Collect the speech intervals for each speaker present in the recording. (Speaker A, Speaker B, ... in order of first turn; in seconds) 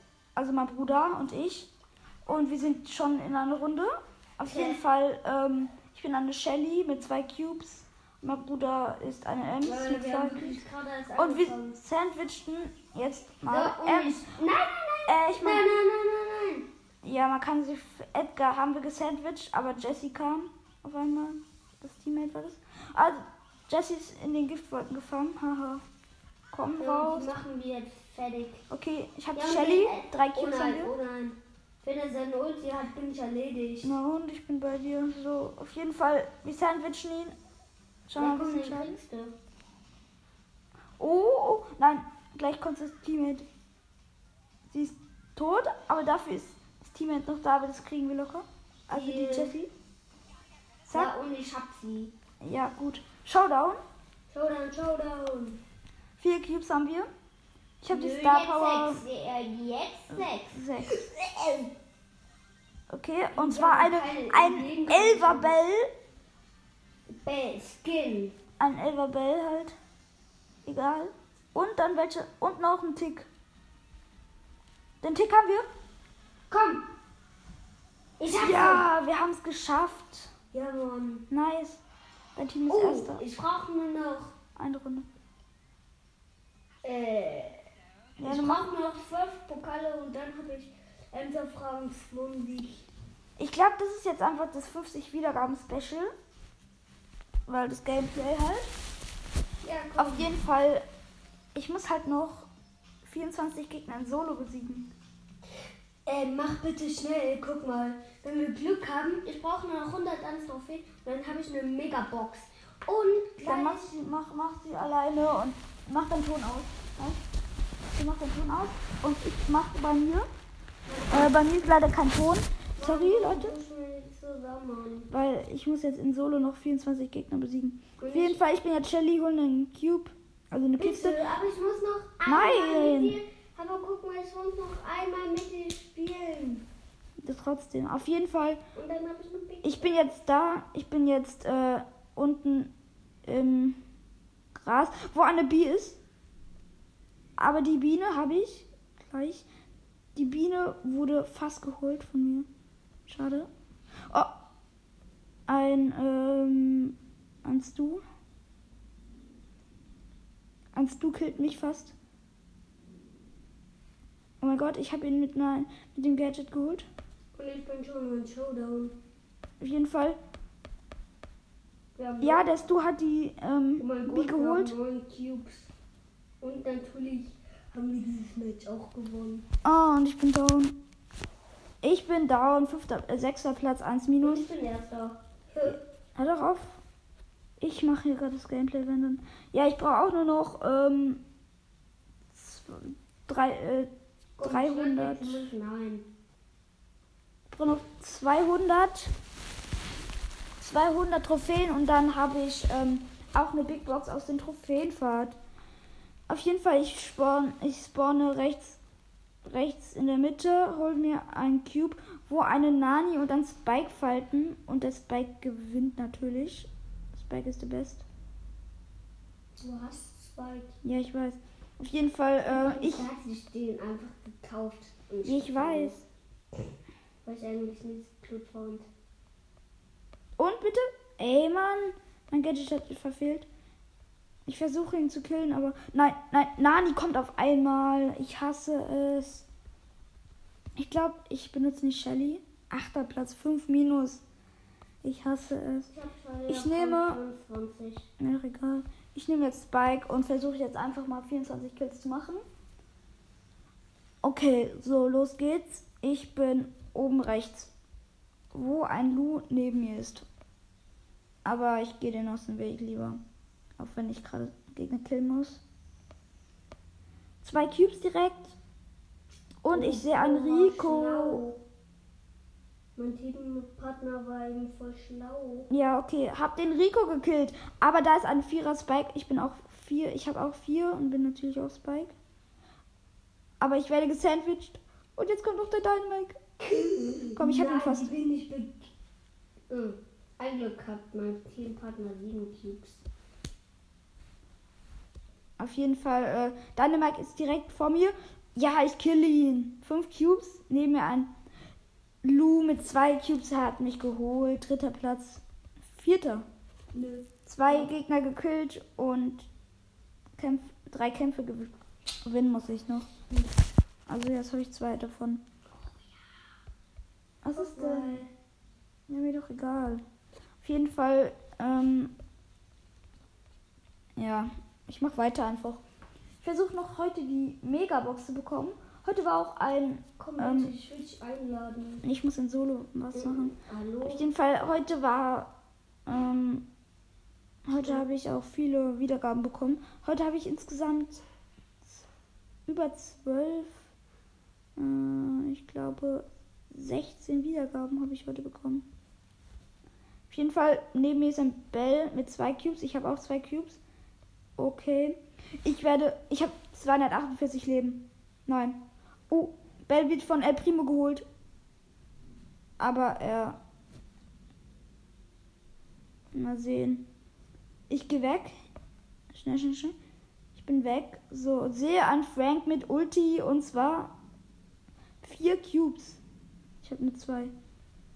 Speaker A: 0.3-1.7, 2.2-10.6, 11.2-14.3, 15.1-15.7, 17.0-25.8, 26.5-27.3, 28.7-30.9, 33.8-37.3, 38.1-39.0, 41.0-43.4, 44.7-49.7, 52.4-53.8, 56.2-57.1, 57.8-59.0, 60.1-61.0, 62.9-65.9, 68.6-69.8, 70.6-73.3, 75.0-75.7, 78.4-80.3, 81.3-81.8, 82.3-83.2, 84.5-85.1, 88.2-88.7, 93.4-96.1, 97.5-98.7, 100.0-100.8, 101.5-102.5, 103.0-104.9, 113.4-117.2, 117.9-120.3, 121.1-123.5, 125.1-131.2, 132.2-133.2, 137.2-138.6, 139.6-142.7, 143.2-143.8, 144.5-146.0, 147.4-149.4, 150.1-152.5, 153.1-153.5, 155.5-158.0, 160.7-161.9, 164.4-166.9, 169.6-170.2, 172.2-174.7, 179.6-180.8, 181.8-184.4, 186.2-186.8, 187.6-191.2, 192.3-193.9, 194.4-195.5, 197.5-199.1, 200.6-205.3, 206.3-208.8, 209.4-218.0, 220.8-223.1, 225.2-226.0, 230.4-233.5, 234.4-239.4, 240.8-244.2, 245.0-245.9, 246.5-247.2, 248.2-252.4, 254.2-257.7, 258.5-260.2, 261.4-263.2, 263.8-265.6, 267.4-268.5, 269.6-271.4, 275.7-282.1, 283.6-286.4, 287.3-288.1, 295.6-301.3, 302.2-306.4, 307.4-309.5, 310.4-311.7, 312.2-313.1, 314.1-315.4, 317.4-318.2, 319.1-320.0, 320.6-322.1, 324.2-325.8, 326.4-330.7, 332.0-335.5, 336.1-336.6, 337.6-341.2, 342.7-343.9, 344.8-348.9, 350.3-353.8, 354.6-358.8, 359.3-361.2, 362.8-363.6, 366.3-367.1, 367.9-368.5, 369.3-369.9, 370.5-374.1, 375.2-376.2, 376.8-377.5
Speaker B: 4.5-4.8, 9.6-11.8, 13.5-16.7, 26.8-28.6, 29.3-33.9, 38.1-39.3, 48.9-49.5, 50.9-52.1, 54.3-55.6, 57.9-61.7, 63.3-65.6, 67.1-68.4, 76.5-76.8, 78.2-78.8, 80.5-81.2, 82.7-84.3, 86.8-87.6, 88.2-92.9, 99.6-100.3, 106.0-114.0, 120.9-121.3, 122.8-125.1, 128.0-128.4, 130.8-136.7, 138.7-140.0, 167.3-169.0, 171.9-172.7, 173.8-175.7, 176.4-179.4, 184.2-185.8, 194.4-196.1, 219.5-220.7, 222.5-226.0, 227.2-228.9, 245.9-248.1, 269.7-271.6, 272.9-275.7, 286.6-288.9, 289.7-293.0, 306.9-307.9, 315.8-316.1, 317.5-318.3, 330.2-332.0, 333.1-334.3